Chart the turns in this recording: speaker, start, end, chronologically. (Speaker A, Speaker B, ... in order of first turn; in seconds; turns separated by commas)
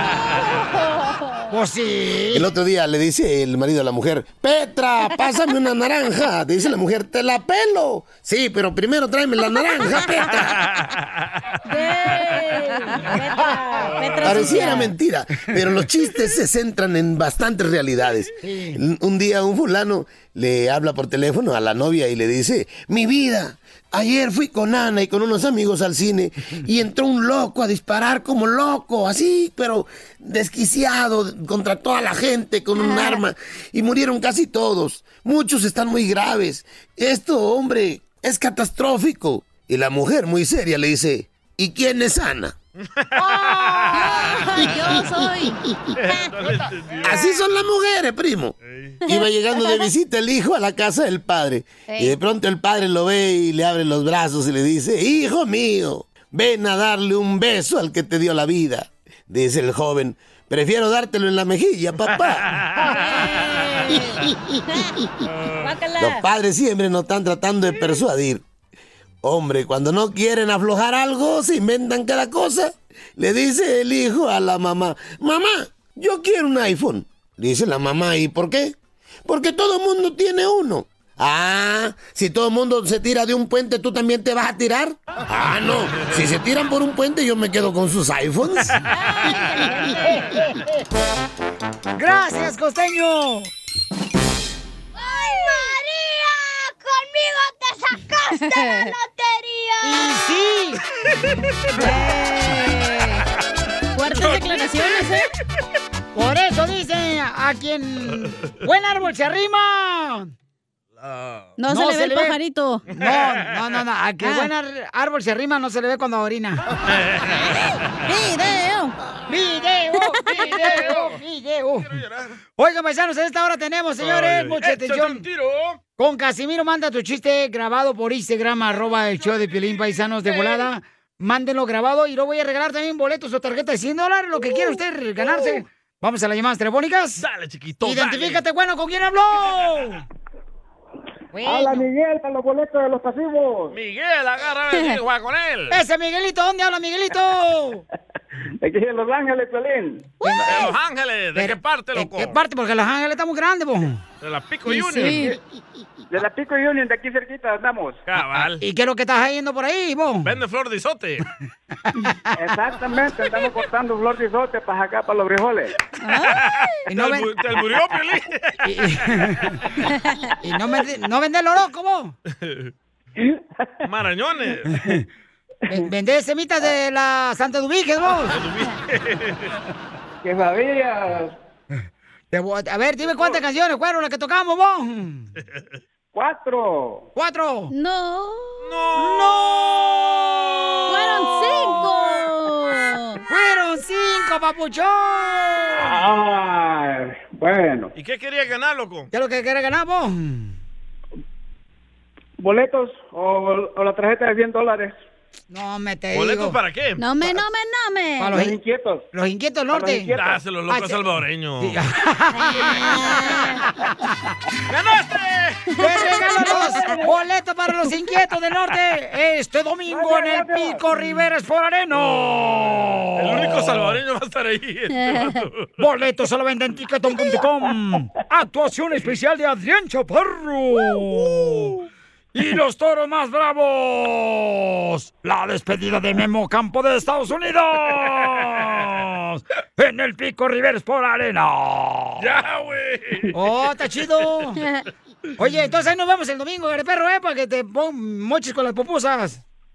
Speaker A: 0.2-1.5, Speaker B: 1.5-2.5, Speaker C: 2.3-10.6, Speaker A: 11.7-14.9, Speaker D: 13.9-14.6, Speaker C: 14.2-42.5, Speaker B: 18.4-18.8, Speaker A: 32.8-33.2, Speaker D: 43.0-44.7, Speaker A: 43.4-45.6, Speaker D: 46.0-47.3, Speaker C: 47.0-62.5, Speaker D: 48.7-49.0, Speaker A: 49.0-49.9, Speaker A: 51.9-52.2, Speaker D: 62.5-63.5, Speaker A: 62.8-64.9, Speaker D: 65.4-65.7, Speaker A: 65.6-66.2, Speaker C: 66.0-68.4, Speaker C: 69.2-88.8, Speaker A: 89.0-90.2, Speaker B: 90.0-90.7, Speaker B: 91.9-93.5, Speaker E: 95.0-100.2, Speaker A: 98.3-98.9, Speaker B: 99.8-100.8, Speaker A: 101.7-103.2, Speaker A: 103.9-105.3, Speaker D: 104.0-105.1, Speaker B: 106.1-110.3, Speaker D: 111.0-111.5, Speaker A: 111.6-112.8, Speaker B: 111.7-112.4, Speaker B: 112.9-116.6, Speaker D: 112.9-113.4, Speaker A: 114.2-114.5, Speaker D: 116.9-117.3, Speaker A: 118.0-118.9, Speaker B: 119.3-122.0, Speaker A: 120.0-120.7, Speaker D: 121.8-122.4, Speaker B: 122.6-125.2, Speaker D: 124.0-125.8, Speaker B: 126.0-137.2, Speaker D: 128.8-130.6, Speaker D: 137.2-138.4, Speaker B: 137.8-140.0, Speaker B: 141.3-141.9, Speaker F: 141.4-143.8, Speaker D: 143.7-145.8, Speaker B: 145.7-147.8, Speaker F: 148.6-150.1, Speaker B: 150.2-150.7, Speaker A: 150.2-150.7, Speaker D: 150.4-152.4, Speaker B: 151.3-154.0, Speaker D: 154.2-155.3, Speaker A: 154.7-155.4, Speaker F: 156.1-158.0, Speaker D: 158.1-158.6, Speaker B: 158.6-160.3, Speaker D: 160.2-161.2, Speaker B: 161.9-162.3, Speaker F: 162.3-165.7, Speaker A: 166.0-166.4, Speaker D: 166.4-169.3, Speaker B: 166.9-167.3, Speaker B: 168.6-169.6, Speaker A: 169.9-170.3, Speaker B: 170.4-172.1, Speaker D: 172.3-172.7, Speaker D: 173.8-174.7, Speaker B: 174.7-175.0, Speaker B: 175.7-178.4, Speaker D: 178.2-179.5, Speaker F: 180.2-181.3, Speaker B: 182.3-185.3, Speaker F: 186.1-187.1, Speaker B: 187.1-187.7, Speaker A: 187.7-188.6, Speaker D: 188.6-191.7, Speaker B: 189.0-189.6, Speaker A: 190.9-193.2, Speaker B: 193.3-196.0, Speaker F: 195.7-197.9, Speaker D: 197.9-199.1, Speaker B: 199.1-200.6, Speaker F: 202.4-204.9, Speaker B: 205.5-206.6, Speaker D: 206.1-207.0, Speaker A: 207.0-208.4, Speaker B: 208.2-208.6, Speaker F: 208.3-209.1, Speaker B: 209.1-210.1, Speaker F: 209.7-210.4, Speaker D: 210.1-211.8, Speaker B: 210.7-211.0, Speaker B: 211.6-213.4, Speaker A: 212.7-213.6, Speaker D: 214.7-216.0, Speaker A: 215.7-217.0, Speaker B: 215.8-223.9, Speaker F: 219.8-220.8, Speaker D: 222.0-225.7, Speaker A: 224.9-225.3, Speaker B: 225.8-231.7, Speaker D: 231.3-231.7, Speaker B: 232.3-242.2, Speaker D: 242.2-243.7, Speaker B: 243.3-244.6, Speaker B: 245.4-249.4